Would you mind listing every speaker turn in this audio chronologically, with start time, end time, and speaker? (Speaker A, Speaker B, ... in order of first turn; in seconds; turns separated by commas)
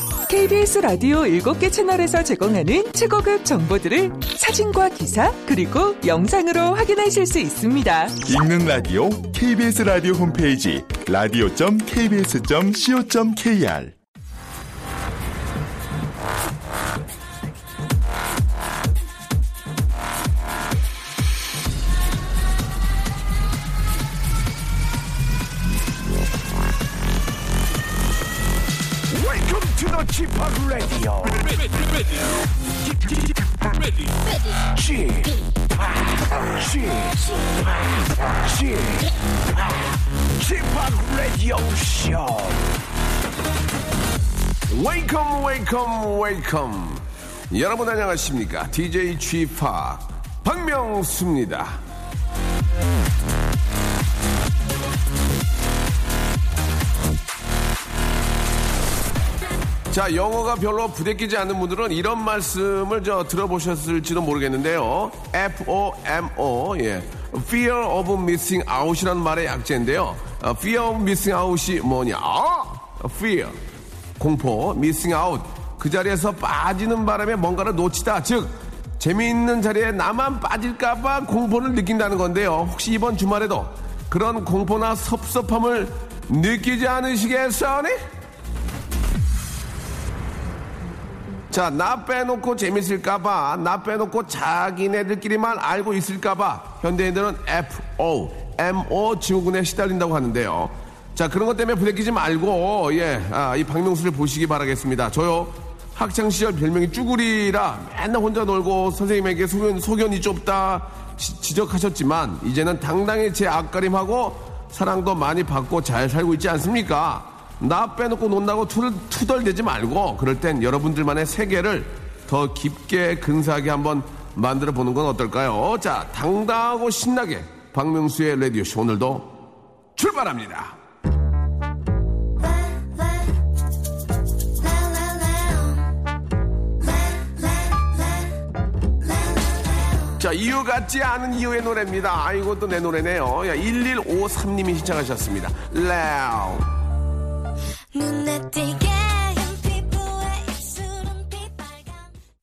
Speaker A: 0.3-8.2, Speaker B: 8.2-13.9, Speaker C: 29.1-31.5, Speaker D: 34.3-34.7, Speaker C: 40.4-42.2, Speaker E: 44.7-51.8, Speaker E: 59.9-73.6, Speaker E: 74.2-88.0, Speaker E: 91.5-129.4, Speaker E: 130.0-130.8, Speaker D: 132.4-133.3, Speaker D: 134.6-135.9, Speaker D: 136.8-138.4, Speaker D: 139.0-140.2, Speaker E: 140.2-146.7, Speaker D: 147.9-152.1